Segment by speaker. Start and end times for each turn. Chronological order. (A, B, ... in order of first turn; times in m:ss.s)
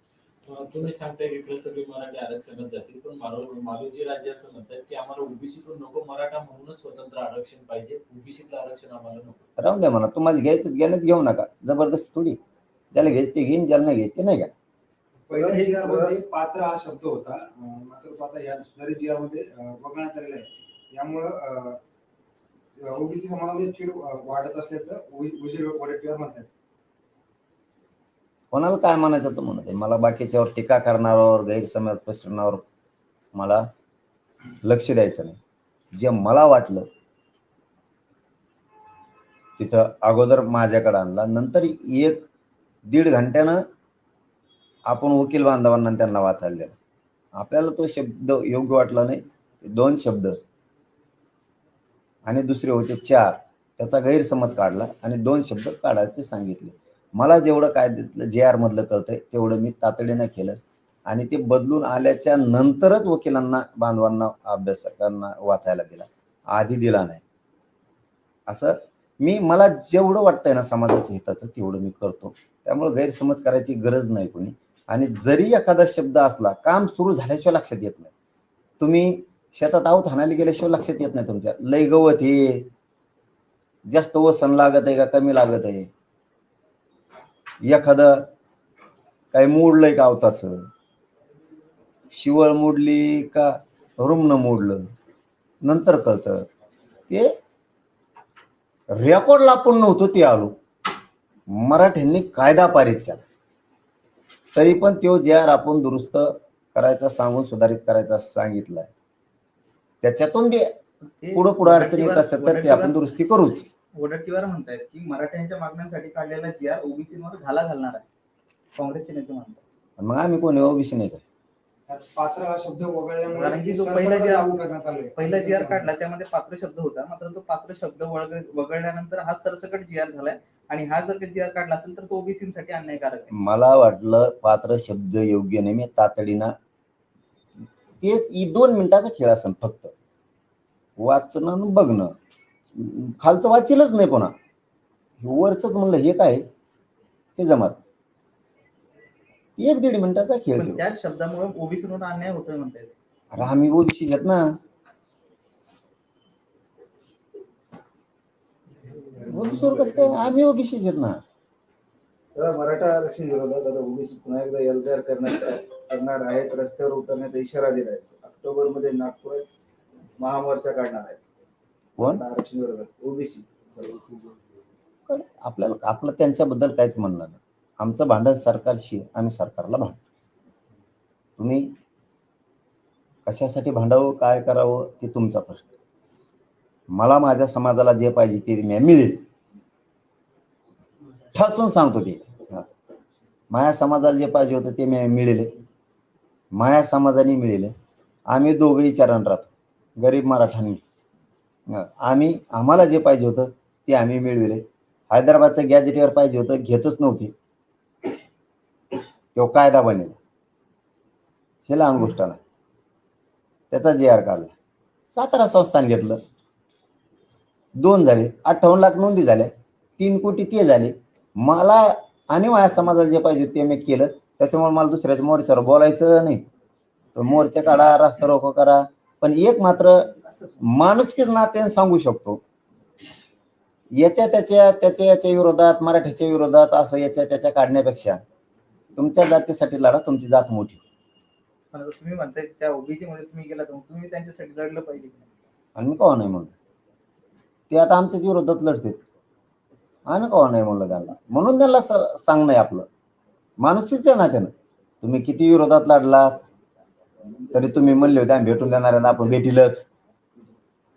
0:00.5-0:09.4 A
0:09.6-0:12.4 B
0:12.9-0:14.5 B
0:15.3-0:21.8 C
0:15.3-0:16.1 D
0:22.8-0:26.5 C
0:28.5-0:32.6 B
0:33.4-0:33.6 B
0:34.6-0:35.4 B
0:35.9-0:36.9 B
0:39.6-0:42.2 B
0:42.9-0:43.6 B
0:44.9-0:46.7 B
0:47.3-0:50.4 B
0:52.2-1:07.2 B
1:08.5-1:18.1 B
1:18.8-1:22.7 B
1:23.9-1:25.9 B
1:27.6-1:28.3 B
1:29.3-1:30.6 B
1:32.1-1:34.8 B
1:35.6-1:36.4 B
1:38.9-1:40.5 B
1:41.5-1:43.2 B
1:44.5-1:48.9 B
1:50.0-1:50.8 B
1:51.1-1:53.0 D
1:51.3-1:53.7 B
1:53.9-1:58.0 D
1:58.7-1:59.6 D
2:00.0-2:01.2 B
2:01.9-2:05.9 C
2:03.3-2:04.5 D
2:05.1-2:13.3 D
2:13.3-2:16.5 B
2:18.0-2:19.9 B
2:21.0-2:22.1 B
2:22.7-2:24.3 B
2:25.2-2:26.4 B
2:27.4-2:27.8 B
2:29.6-2:30.8 B
2:30.6-2:32.9 D
2:33.3-2:34.6 B
2:39.1-2:40.2 E
2:39.3-2:41.2 B
2:42.3-2:49.4 E
2:50.2-2:51.2 E
2:52.0-2:52.2 B
2:52.0-2:54.4 E
2:55.1-3:00.0 B
3:01.4-3:01.7 B
3:03.2-3:05.6 B
3:06.9-3:09.2 B
3:11.3-3:12.6 B
3:13.5-3:15.5 B
3:16.5-3:17.7 B
3:18.3-3:20.8 B
3:21.7-3:27.3 B
3:29.3-3:30.2 B
3:31.7-3:32.4 B
3:33.7-3:34.5 B
3:35.1-3:36.2 B
3:37.8-3:46.4 B
3:47.1-3:50.1 B
3:50.6-3:52.4 B
3:53.9-3:58.2 B
3:59.0-4:00.8 B
4:01.7-4:05.3 D
4:05.8-4:06.5 B
4:07.7-4:09.0 B
4:10.1-4:12.9 B
4:13.6-4:16.3 B
4:17.5-4:19.8 B